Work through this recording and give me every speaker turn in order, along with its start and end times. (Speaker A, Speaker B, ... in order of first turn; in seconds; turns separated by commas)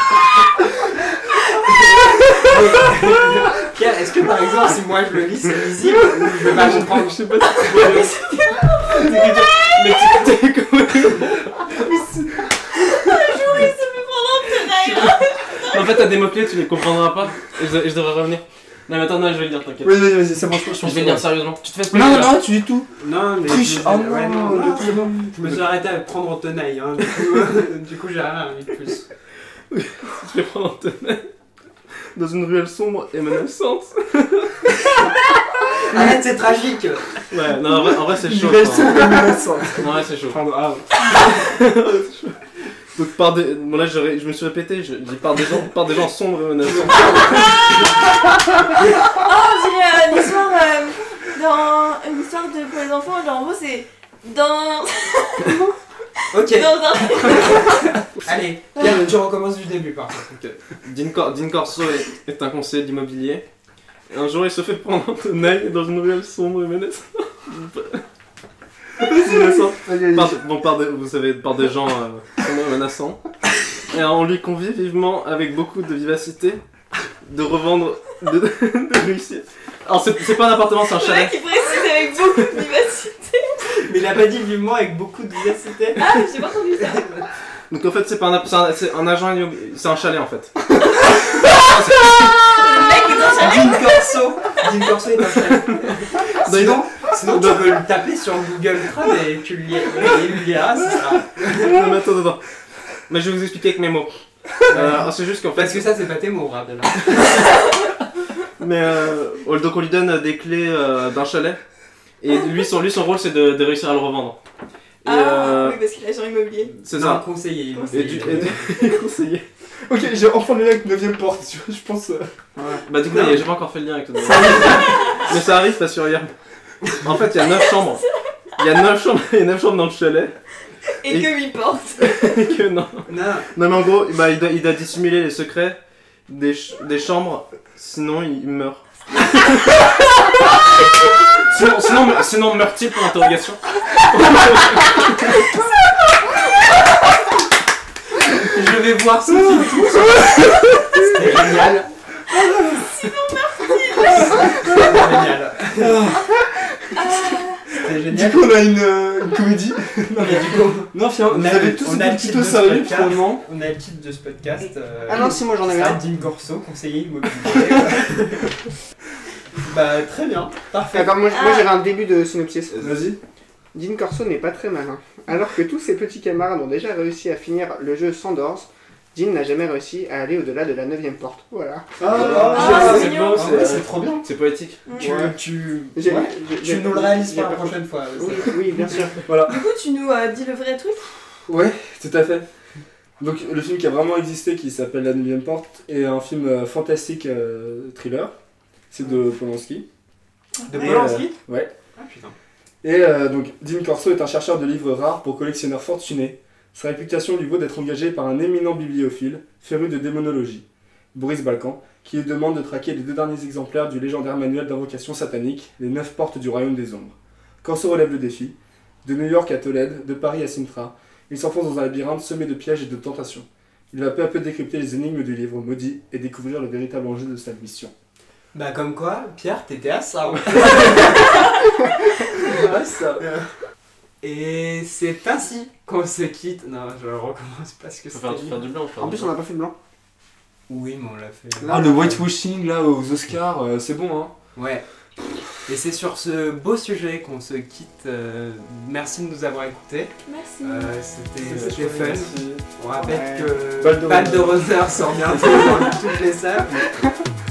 Speaker A: 2.3-8.2, Speaker B: 6.3-11.9, Speaker C: 8.2-9.8, Speaker D: 11.8-13.1, Speaker C: 12.9-16.0, Speaker B: 14.7-22.4, Speaker D: 19.8-21.3, Speaker D: 21.9-22.9, Speaker A: 23.0-29.1, Speaker D: 23.4-25.6, Speaker B: 29.7-31.3, Speaker B: 32.1-34.7, Speaker A: 35.9-37.2, Speaker B: 37.2-39.2, Speaker D: 38.0-40.9, Speaker B: 39.8-40.4, Speaker B: 41.1-42.4, Speaker B: 43.0-47.6, Speaker A: 46.9-47.2, Speaker C: 47.1-47.8, Speaker C: 49.0-55.7, Speaker C: 56.2-57.9, Speaker A: 56.3-60.3, Speaker B: 60.2-63.4, Speaker B: 64.1-68.0, Speaker B: 69.0-73.2, Speaker E: 69.1-70.4, Speaker B: 73.8-76.6, Speaker B: 77.2-81.5, Speaker C: 80.9-83.7, Speaker A: 83.7-86.2, Speaker C: 86.0-87.2, Speaker A: 86.8-87.3, Speaker B: 87.7-92.5, Speaker C: 92.3-93.9, Speaker A: 93.4-101.8, Speaker B: 95.8-97.8, Speaker B: 101.4-102.5, Speaker B: 103.1-105.9, Speaker A: 104.7-107.1, Speaker B: 107.0-107.5, Speaker B: 108.6-111.6, Speaker B: 112.2-114.4, Speaker B: 115.0-115.8, Speaker C: 115.0-116.7, Speaker B: 116.8-117.2, Speaker A: 116.9-118.9, Speaker C: 117.8-118.2, Speaker B: 117.9-119.5, Speaker D: 119.9-122.3, Speaker E: 122.6-122.9, Speaker B: 122.9-128.1, Speaker A: 123.0-123.5, Speaker D: 124.2-124.9, Speaker B: 128.6-130.4, Speaker C: 131.0-132.5, Speaker B: 131.1-131.3, Speaker B: 132.0-139.8, Speaker A: 133.1-133.5, Speaker B: 141.3-145.3, Speaker A: 148.3-151.9, Speaker D: 149.5-151.1, Speaker D: 152.3-152.9, Speaker C: 152.8-154.8, Speaker A: 154.2-156.1, Speaker D: 155.8-157.2, Speaker C: 156.9-157.7, Speaker A: 157.7-158.5, Speaker D: 158.0-163.4, Speaker A: 160.2-168.6, Speaker E: 165.1-166.1, Speaker A: 169.6-171.1, Speaker E: 170.9-173.0, Speaker C: 171.3-171.7, Speaker B: 172.7-173.0, Speaker D: 172.8-173.2, Speaker E: 173.7-182.7, Speaker D: 182.0-183.2, Speaker B: 182.1-184.8, Speaker A: 182.2-184.3, Speaker C: 182.5-183.6, Speaker C: 184.9-185.2, Speaker A: 185.0-189.1, Speaker E: 185.0-185.4, Speaker E: 185.9-189.2, Speaker D: 189.3-189.6, Speaker C: 189.4-191.1, Speaker D: 191.5-192.5, Speaker D: 193.2-198.3, Speaker D: 198.9-199.9, Speaker C: 200.6-200.9, Speaker A: 200.7-201.4, Speaker D: 200.7-201.7, Speaker A: 201.9-202.4, Speaker D: 202.8-227.9, Speaker A: 228.5-231.5, Speaker D: 232.4-233.2, Speaker A: 234.2-238.6, Speaker B: 238.1-239.3, Speaker E: 239.0-239.8, Speaker A: 240.7-242.2, Speaker E: 241.6-242.2, Speaker D: 241.7-244.3, Speaker A: 244.6-244.8, Speaker A: 245.7-256.8, Speaker C: 250.2-250.9, Speaker D: 251.4-252.6, Speaker E: 253.0-253.6, Speaker D: 253.8-254.6